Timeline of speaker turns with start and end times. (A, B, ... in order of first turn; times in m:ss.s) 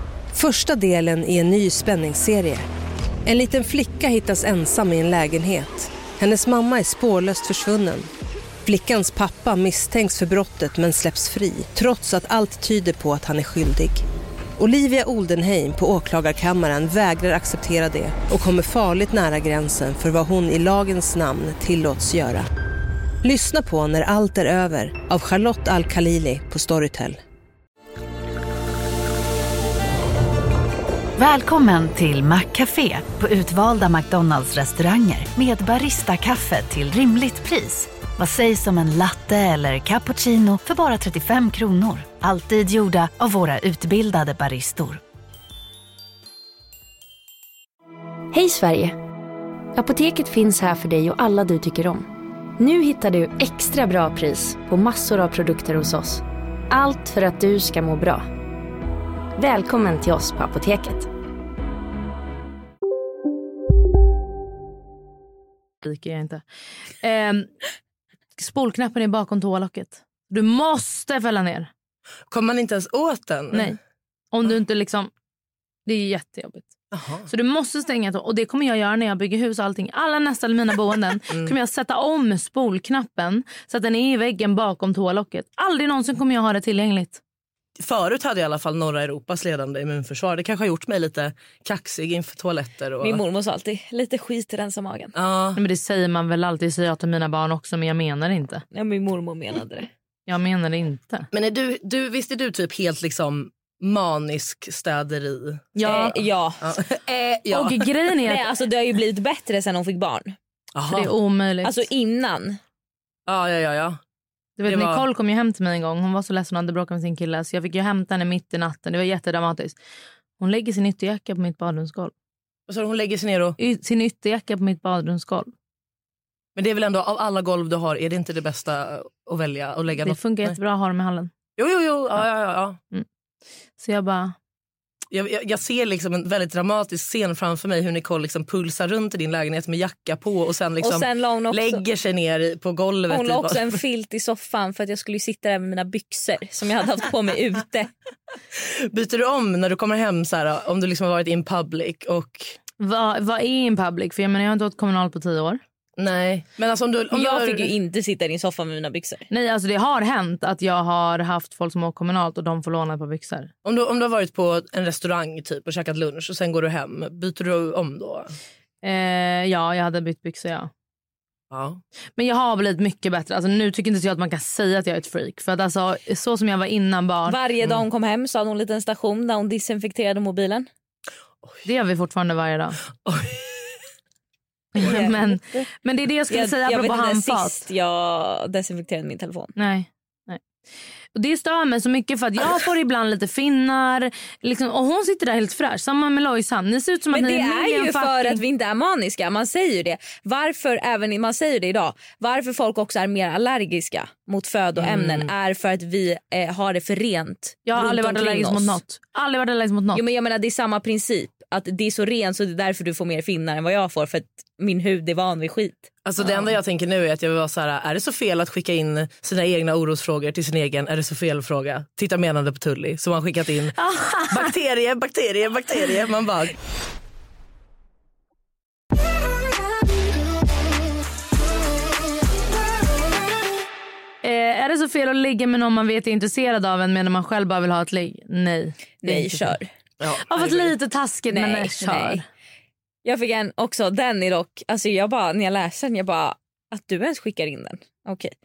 0:00.3-0:02.6 A
0:03.2-0:08.1 A
0:08.6-0:14.0 A
0:14.6-0:22.5 A
0:23.2-0:27.2 A
0:31.2-0:45.0 B
0:48.3-0:49.0 C
0:49.8-0:58.3 C
0:59.4-1:01.1 C
1:05.8-1:06.4 D
1:07.0-1:07.5 D
1:08.4-1:11.7 D
1:12.3-1:13.8 E
1:13.5-1:13.8 D
1:14.3-1:15.1 D
1:15.9-1:16.7 D
1:16.9-1:17.3 E
1:17.3-1:27.2 D
1:21.3-1:21.5 E
1:27.8-1:33.2 E
1:33.0-1:35.2 F
1:35.2-1:35.6 E
1:35.6-1:38.6 D
1:38.7-1:39.9 F
1:40.3-1:41.3 D
1:41.3-1:46.0 E
1:45.8-1:46.2 D
1:45.8-1:46.8 F
1:46.6-1:47.9 E
1:47.5-1:48.5 D
1:48.3-1:50.4 F
1:50.8-1:51.1 E
1:50.9-1:51.8 D
1:51.6-1:52.6 F
1:53.3-1:54.0 E
1:54.6-1:59.8 D
1:54.6-1:55.0 E
2:00.4-2:02.1 D
2:02.7-2:03.6 E
2:03.6-2:05.5 D
2:06.6-2:10.6 E
2:10.0-2:11.3 D
2:11.6-2:12.8 E
2:13.8-2:14.4 D
2:15.1-2:23.8 E
2:20.8-2:21.8 F
2:23.1-2:27.9 F
2:28.6-2:32.6 E
2:32.8-2:35.6 D
2:36.0-2:37.7 E
2:37.1-2:39.3 F
2:39.3-2:43.5 D
2:43.6-2:48.3 E
2:48.8-2:50.7 D
2:51.5-2:51.8 E
2:52.2-2:57.4 D
2:57.3-3:00.7 F
3:01.6-3:02.8 D
3:03.0-3:03.8 E
3:04.8-3:07.7 D
3:04.8-3:05.3 F
3:06.3-3:09.5 F
3:09.6-3:10.4 D
3:11.2-3:18.4 D
3:17.1-3:28.8 F
3:24.8-3:25.3 E
3:27.7-3:30.0 D
3:29.9-3:35.9 F
3:36.0-3:46.6 E
3:43.8-3:44.5 D
3:54.2-3:59.6 D
3:59.0-3:59.7 F
4:00.0-4:00.7 E
4:00.3-4:02.3 D
4:01.3-4:02.2 F
4:03.0-4:08.3 F